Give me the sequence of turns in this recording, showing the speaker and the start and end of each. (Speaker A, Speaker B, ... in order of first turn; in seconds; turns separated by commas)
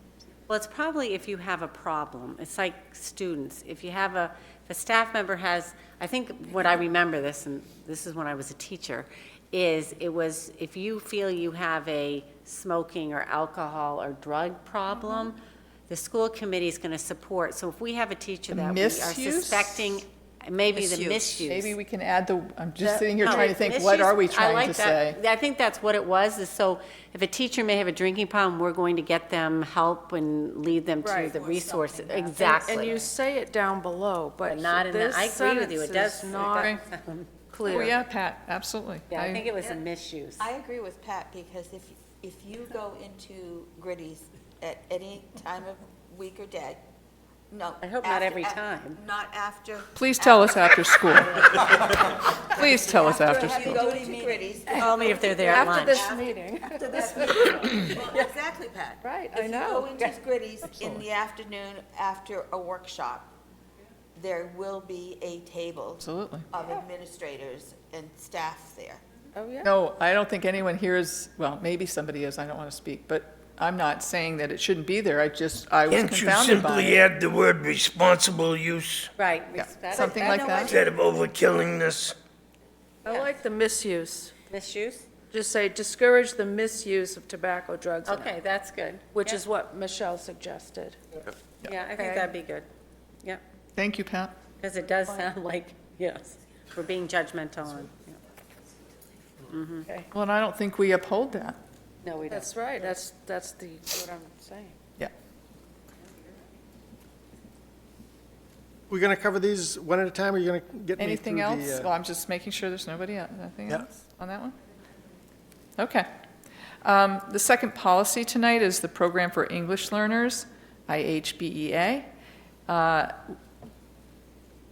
Speaker A: 0.5-21.7, Speaker B: 18.5-20.0, Speaker C: 20.7-21.4, Speaker B: 21.4-25.2, Speaker D: 22.8-23.5, Speaker A: 23.2-33.0, Speaker D: 31.0-31.3, Speaker C: 31.1-33.0, Speaker D: 32.4-36.8, Speaker A: 34.5-37.3, Speaker B: 36.5-36.8, Speaker D: 37.5-38.0, Speaker B: 37.6-39.5, Speaker A: 39.1-40.5, Speaker C: 40.4-46.8, Speaker C: 47.5-63.3, Speaker A: 47.8-49.0, Speaker B: 50.0-53.9, Speaker A: 54.7-56.0, Speaker D: 55.4-58.2, Speaker D: 59.0-60.1, Speaker B: 60.7-61.0, Speaker C: 64.1-69.0, Speaker B: 66.0-66.5, Speaker D: 69.3-69.7, Speaker B: 69.6-77.0, Speaker E: 75.9-79.1, Speaker A: 79.2-80.5, Speaker B: 79.5-80.8, Speaker C: 79.9-80.9, Speaker E: 80.6-82.1, Speaker A: 83.0-83.3, Speaker D: 83.0-84.3, Speaker A: 84.5-85.0, Speaker D: 85.3-88.3, Speaker A: 88.0-89.4, Speaker D: 89.1-91.0, Speaker A: 91.6-92.7, Speaker D: 92.0-92.3, Speaker B: 93.8-94.3, Speaker A: 94.6-98.2, Speaker A: 99.5-99.9, Speaker B: 100.1-101.6, Speaker A: 102.0-102.9, Speaker D: 102.3-104.8, Speaker F: 108.9-111.9, Speaker B: 111.0-114.5, Speaker B: 115.8-116.1, Speaker B: 116.8-122.1, Speaker B: 122.7-123.4